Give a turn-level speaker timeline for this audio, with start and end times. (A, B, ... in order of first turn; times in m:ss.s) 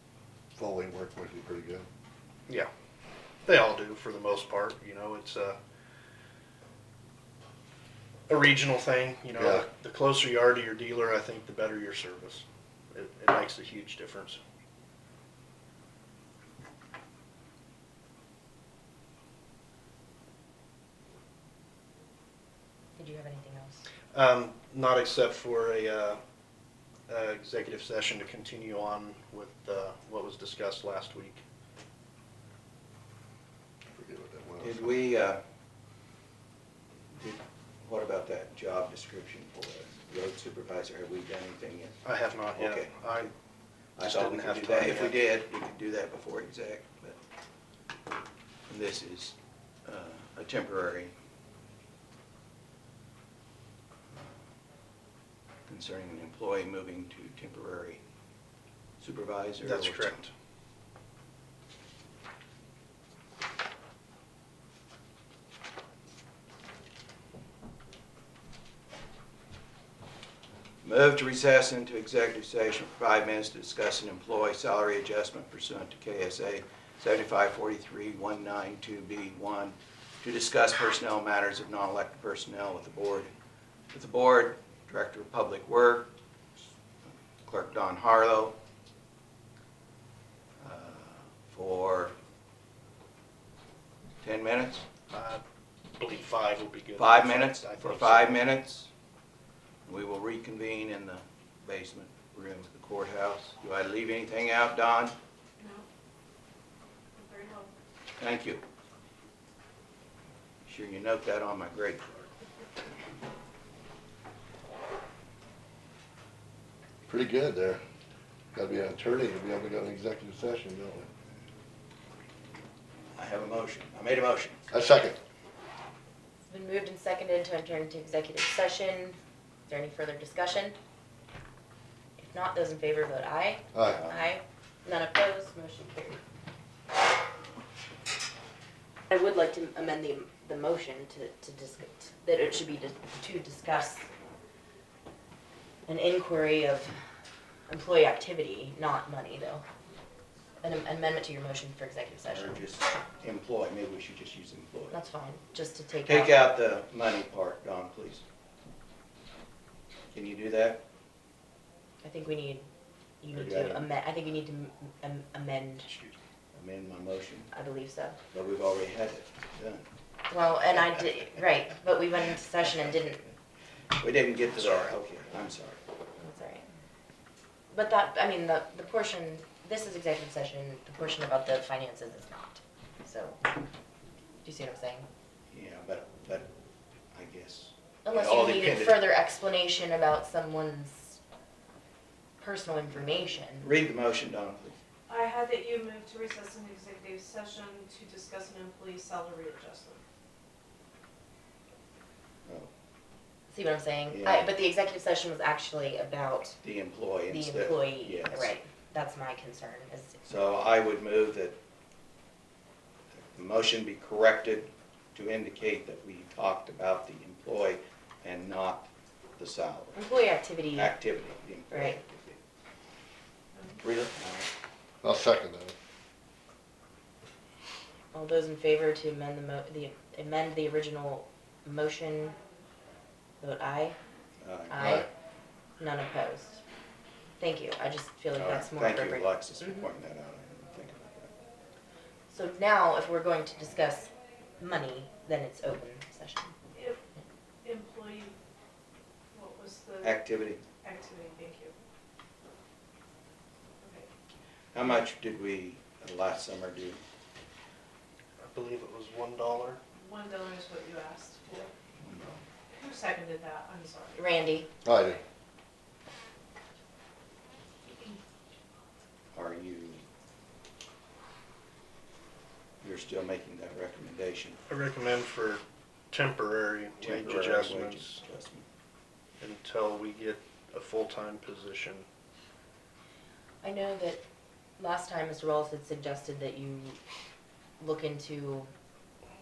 0:00.5-0:01.9 A
0:03.4-0:05.6 B
0:08.3-0:14.4 B
0:09.4-0:09.7 A
0:23.0-0:23.8 C
0:24.1-0:26.2 B
0:27.1-0:31.4 B
0:33.9-0:34.9 A
0:34.6-0:35.4 D
0:37.2-0:42.0 D
0:42.0-0:43.3 B
0:42.6-0:43.0 D
0:44.0-0:47.2 D
0:44.0-0:45.2 B
0:48.7-0:51.1 D
0:55.7-0:58.0 D
0:59.0-1:00.2 D
0:59.6-1:00.3 B
1:10.8-1:23.3 D
1:23.9-1:26.1 D
1:27.1-1:28.6 D
1:30.6-1:32.1 D
1:34.2-1:34.9 D
1:35.1-1:35.4 B
1:36.0-1:38.4 B
1:37.0-1:38.9 D
1:39.9-1:45.1 D
1:45.6-1:45.9 E
1:47.2-1:47.7 E
1:48.2-1:48.6 D
1:50.7-1:52.2 D
1:57.1-1:57.8 A
1:58.5-2:01.1 A
2:03.1-2:04.7 D
2:04.7-2:05.2 A
2:06.5-2:09.2 C
2:09.7-2:10.8 C
2:12.2-2:16.2 C
2:13.7-2:14.0 A
2:13.8-2:14.2 D
2:19.1-2:24.1 C
2:25.9-2:27.0 C
2:27.7-2:29.6 C
2:30.6-2:32.6 C
2:32.3-2:34.9 D
2:34.9-2:36.4 C
2:36.1-2:38.2 D
2:40.1-2:40.8 D
2:42.0-2:42.7 C
2:43.2-2:45.9 C
2:43.3-2:43.8 D
2:45.9-2:47.5 D
2:47.5-2:48.2 C
2:48.3-2:49.8 D
2:50.3-2:53.2 C
2:54.0-2:55.8 D
2:56.2-2:56.7 C
2:57.7-3:03.4 C
3:04.4-3:05.1 C
3:05.5-3:06.5 D
3:07.1-3:09.0 D
3:08.0-3:11.2 C
3:12.4-3:13.7 C
3:13.6-3:14.8 D
3:15.1-3:20.0 E
3:23.5-3:26.6 C
3:24.1-3:24.5 D
3:26.6-3:28.6 D
3:27.3-3:30.2 C
3:30.2-3:31.6 D
3:33.2-3:40.0 D
3:39.9-3:41.0 C
3:40.7-3:42.4 D
3:41.7-3:42.0 C
3:43.8-3:44.5 D
3:45.0-3:45.8 A
3:48.1-3:52.4 C
3:53.4-3:54.0 C
3:54.4-3:54.8 D
3:54.7-3:55.1 C
3:54.8-3:55.1 A
3:55.8-3:56.6 C
3:57.4-3:59.9 C
3:58.3-4:01.3 D
4:02.3-4:06.5 C
4:06.7-4:07.0 E
4:07.6-4:08.3 E
4:09.3-4:11.7 E
4:10.0-4:10.7 D
4:13.8-4:14.1 E
4:14.7-4:17.0 D
4:18.4-4:19.8 B
4:20.0-4:21.7 E
4:22.0-4:22.4 D
4:22.7-4:24.2 E
4:24.2-4:24.7 C
4:24.8-4:25.2 A
4:27.8-4:28.2 E
4:29.3-4:30.0 D
4:32.8-4:34.6 D
4:34.7-4:38.2 B
4:37.0-4:38.6 D
4:39.4-4:42.1 B
4:43.6-4:44.2 C
4:44.8-4:47.0 C
4:47.8-4:48.7 C